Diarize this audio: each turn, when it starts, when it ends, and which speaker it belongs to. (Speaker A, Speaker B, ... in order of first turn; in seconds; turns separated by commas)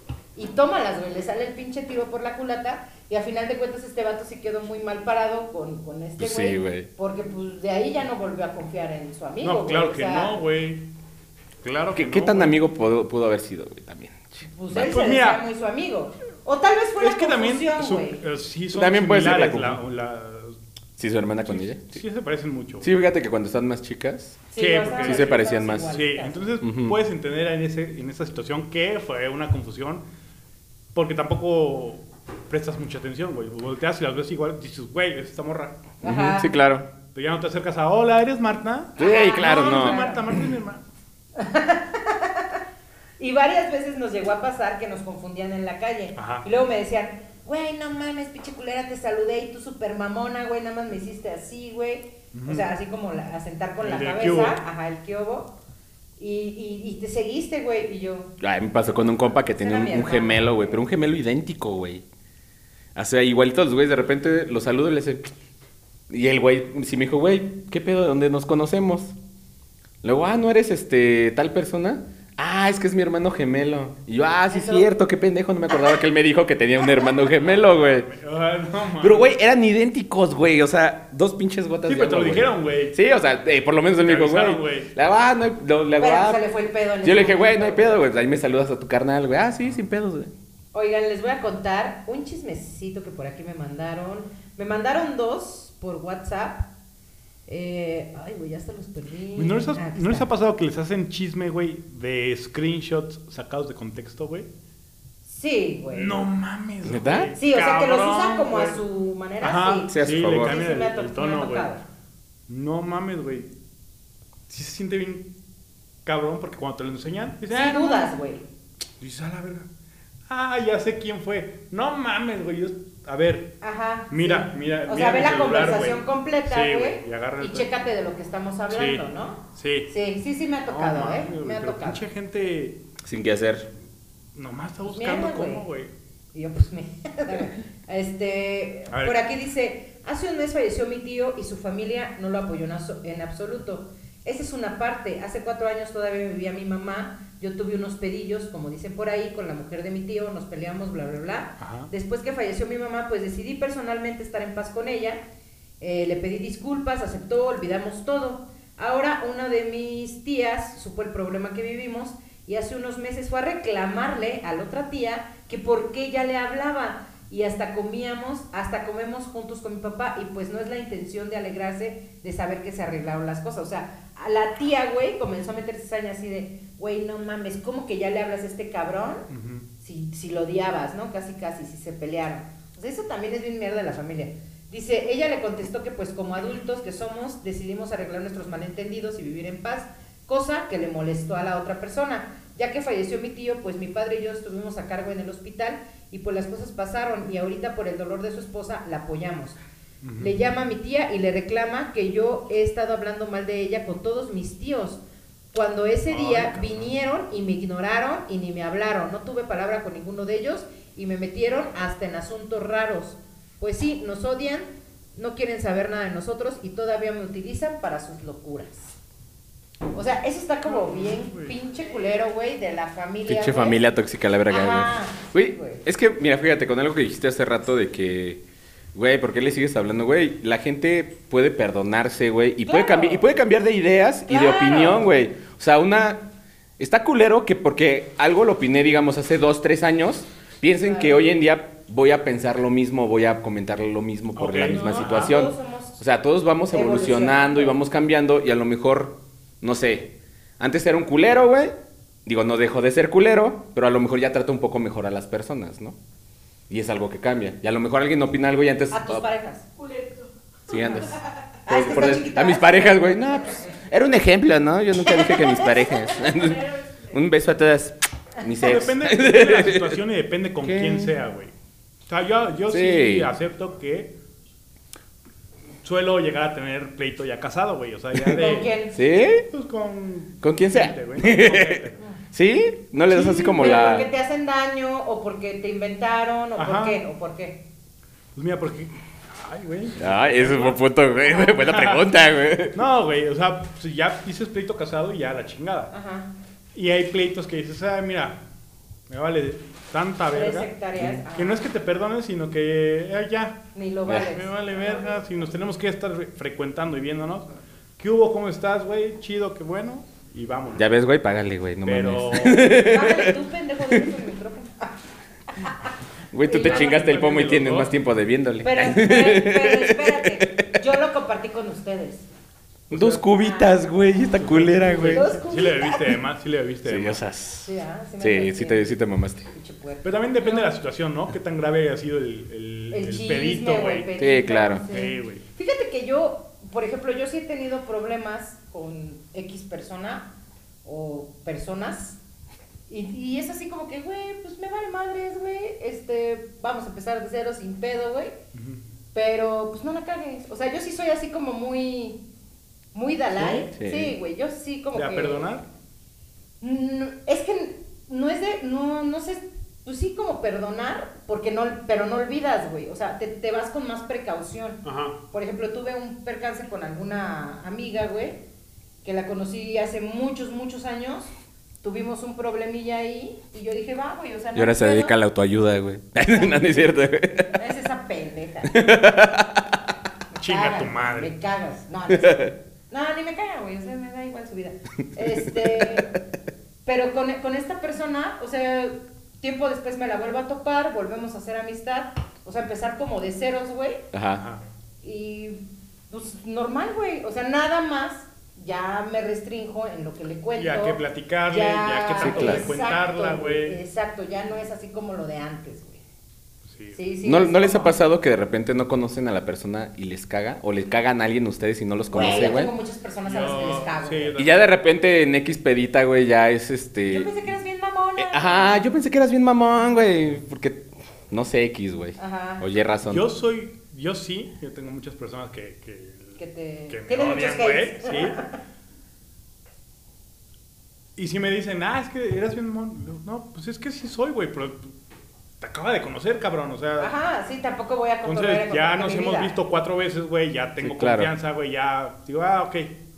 Speaker A: 0.3-10.4, Speaker B: 6.2-6.9, Speaker C: 9.4-10.8, Speaker C: 11.6-12.5, Speaker B: 11.9-14.9, Speaker A: 14.4-18.2, Speaker C: 14.7-15.4, Speaker C: 17.0-20.6, Speaker B: 18.7-19.8, Speaker B: 21.0-22.0, Speaker C: 21.4-22.9, Speaker B: 22.8-24.4, Speaker A: 24.5-26.5, Speaker C: 24.6-30.0, Speaker B: 25.0-26.0, Speaker B: 26.6-27.0, Speaker C: 30.9-35.8, Speaker A: 36.0-36.5, Speaker B: 36.0-36.9, Speaker C: 37.1-40.8, Speaker A: 39.0-40.2, Speaker B: 39.0-40.0, Speaker A: 41.4-42.6, Speaker A: 43.2-55.5, Speaker C: 46.1-46.5, Speaker C: 52.3-52.7, Speaker C: 53.8-54.6, Speaker A: 56.2-58.3, Speaker B: 58.4-62.0, Speaker A: 59.2-60.8, Speaker B: 62.9-65.3, Speaker B: 66.1-69.1, Speaker B: 70.0-78.1, Speaker A: 74.5-74.9, Speaker C: 77.4-79.3, Speaker B: 79.0-86.4, Speaker C: 81.8-83.0, Speaker C: 84.0-84.9, Speaker A: 86.0-87.9, Speaker B: 87.0-90.3, Speaker A: 90.7-96.7, Speaker A: 97.5-100.3, Speaker C: 99.3-104.5, Speaker A: 105.2-106.2, Speaker C: 105.9-108.8, Speaker B: 106.8-107.3, Speaker A: 107.4-111.8, Speaker C: 109.4-111.8, Speaker B: 109.9-110.6, Speaker C: 112.5-113.5, Speaker C: 114.5-115.3, Speaker C: 116.0-118.1, Speaker A: 117.5-118.4, Speaker C: 119.0-119.7, Speaker C: 120.3-123.6, Speaker A: 123.6-132.0, Speaker C: 124.1-127.7, Speaker C: 128.7-129.9, Speaker C: 130.7-132.8, Speaker B: 133.0-133.7, Speaker C: 134.3-135.9, Speaker A: 134.8-135.7, Speaker A: 136.3-155.2, Speaker C: 138.9-139.2, Speaker C: 151.6-151.9, Speaker A: 155.8-179.3, Speaker C: 179.3-179.7, Speaker A: 179.8-199.6, Speaker C: 200.0-200.3, Speaker A: 200.2-205.0, Speaker A: 205.5-218.9, Speaker C: 206.1-206.9, Speaker A: 219.9-223.8, Speaker C: 220.7-221.6, Speaker B: 223.3-228.4, Speaker A: 224.5-225.8, Speaker B: 228.9-236.3, Speaker A: 232.6-233.2, Speaker A: 234.3-235.1, Speaker B: 236.8-251.7, Speaker A: 240.8-241.3, Speaker C: 244.3-245.4, Speaker A: 244.6-246.0, Speaker A: 246.7-247.8, Speaker B: 252.2-256.0, Speaker B: 256.7-259.2, Speaker A: 258.9-259.6, Speaker D: 259.8-261.2, Speaker B: 260.7-270.0, Speaker A: 261.6-263.7, Speaker A: 265.1-266.0, Speaker D: 266.1-267.2, Speaker C: 268.6-271.5, Speaker B: 270.6-271.1, Speaker C: 272.1-274.1, Speaker B: 272.7-273.3, Speaker C: 275.8-278.7, Speaker A: 278.3-279.0, Speaker B: 278.9-279.4, Speaker C: 279.4-282.0, Speaker B: 280.4-284.1, Speaker A: 283.1-287.6, Speaker C: 286.6-287.0, Speaker C: 288.3-290.8, Speaker B: 290.0-292.8, Speaker C: 291.5-292.1, Speaker C: 292.7-295.9, Speaker A: 295.9-296.3, Speaker C: 296.7-298.4, Speaker C: 299.1-300.7, Speaker A: 300.3-301.6, Speaker C: 301.3-307.5, Speaker A: 303.7-304.5, Speaker C: 308.0-310.8, Speaker B: 310.7-313.3, Speaker C: 311.8-312.7, Speaker A: 312.5-314.9, Speaker B: 316.3-320.8, Speaker A: 316.4-317.0, Speaker C: 316.6-317.9, Speaker A: 318.6-322.3, Speaker B: 322.9-325.3, Speaker A: 323.0-323.8, Speaker C: 324.3-327.2, Speaker A: 324.9-326.1, Speaker B: 326.8-329.5, Speaker A: 327.6-328.9, Speaker A: 329.5-330.7, Speaker C: 330.0-334.1, Speaker A: 332.9-340.3, Speaker B: 334.2-334.8, Speaker C: 334.9-335.4, Speaker A: 340.8-342.2, Speaker A: 342.9-348.4, Speaker C: 348.5-348.8, Speaker A: 349.1-352.2, Speaker A: 352.9-355.5, Speaker B: 353.4-354.1, Speaker C: 354.9-355.6, Speaker A: 356.6-368.4, Speaker C: 364.8-365.2, Speaker A: 369.0-371.3, Speaker A: 371.8-375.1, Speaker B: 374.5-377.5, Speaker A: 377.5-378.9, Speaker B: 378.7-379.7, Speaker A: 380.3-386.1, Speaker C: 380.4-381.3, Speaker B: 382.1-382.5, Speaker B: 385.5-386.0, Speaker A: 386.8-394.0, Speaker B: 394.1-394.4, Speaker C: 394.4-394.6, Speaker A: 395.0-406.0, Speaker C: 400.6-403.8, Speaker B: 402.2-402.7, Speaker C: 406.7-407.0, Speaker A: 406.9-408.0, Speaker B: 407.2-412.7, Speaker A: 412.1-414.4, Speaker C: 413.2-414.7, Speaker B: 414.4-417.3, Speaker A: 417.1-418.9, Speaker B: 418.2-423.2, Speaker A: 422.2-422.6, Speaker C: 423.0-426.4, Speaker A: 426.4-428.5, Speaker C: 426.9-428.4, Speaker C: 431.2-434.9, Speaker C: 435.6-437.1, Speaker A: 437.0-439.6, Speaker C: 438.2-443.0, Speaker B: 440.8-441.3